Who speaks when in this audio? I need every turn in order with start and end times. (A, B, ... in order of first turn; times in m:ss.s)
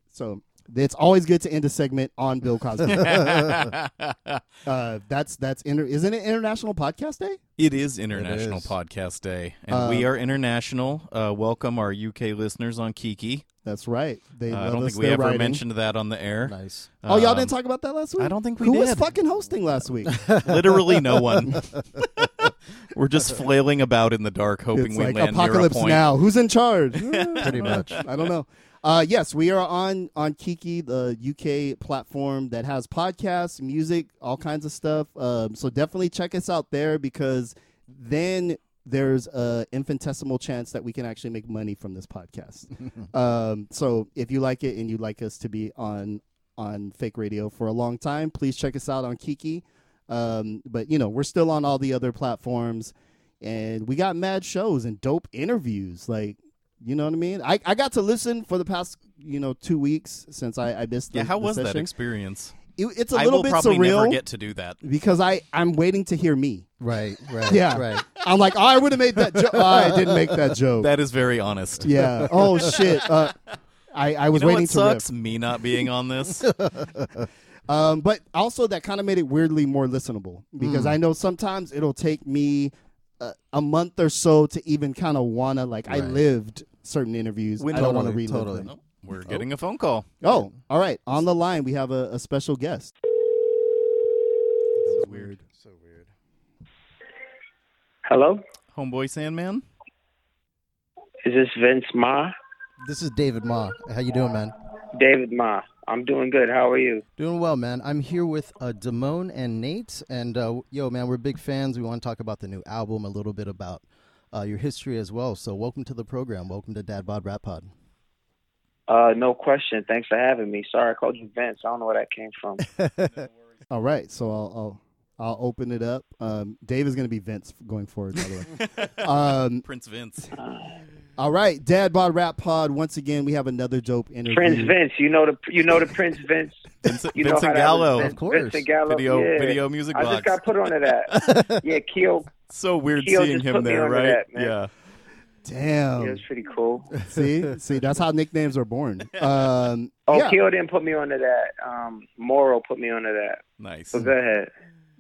0:00.1-0:03.5 A
0:02.9-0:04.4 B
0:02.9-0:03.4 C
0:04.6-0:07.4 A
0:07.6-0:13.4 B
0:08.1-0:08.7 C
0:09.7-0:10.1 A
0:13.6-0:15.6 A
0:14.5-0:17.6 B
0:16.5-0:16.9 C
0:17.1-0:20.3 A
0:18.2-0:19.1 B
0:20.3-0:26.1 B
0:21.5-0:21.8 C
0:24.8-1:01.9 A
0:27.0-0:28.1 B
0:27.4-0:28.0 C
1:01.1-1:02.6 B
1:02.8-1:04.2 A
1:03.1-1:04.8 B
1:04.8-1:06.7 A
1:06.8-1:08.1 C
1:07.5-1:10.9 A
1:09.2-1:10.4 C
1:10.8-1:12.9 B
1:11.8-1:13.4 A
1:13.9-1:15.0 A
1:14.3-1:16.5 B
1:16.4-1:17.3 C
1:17.7-1:28.7 A
1:20.6-1:21.0 C
1:25.9-1:26.2 C
1:27.6-1:30.1 B
1:27.7-1:28.7 C
1:30.2-1:32.9 A
1:34.9-1:35.4 A
1:34.9-1:35.3 B
1:35.4-1:36.1 C
1:38.1-1:38.4 D
1:38.8-1:39.6 B
1:41.2-1:42.3 D
1:42.8-1:44.5 C
1:44.9-1:47.0 D
1:47.2-1:57.7 C
1:58.9-2:02.6 D
2:02.6-2:03.3 C
2:03.7-2:09.6 A
2:08.3-2:10.3 B
2:10.3-2:10.8 D
2:11.2-2:14.8 A
2:14.3-2:22.3 D
2:16.8-2:18.2 B
2:18.0-2:18.7 C
2:18.8-2:21.4 B
2:21.2-2:21.6 C
2:22.4-2:24.7 B
2:23.0-2:24.5 D
2:25.4-2:26.2 A
2:26.0-2:27.0 D
2:27.1-2:30.4 A
2:30.1-2:34.5 D
2:33.6-2:34.1 B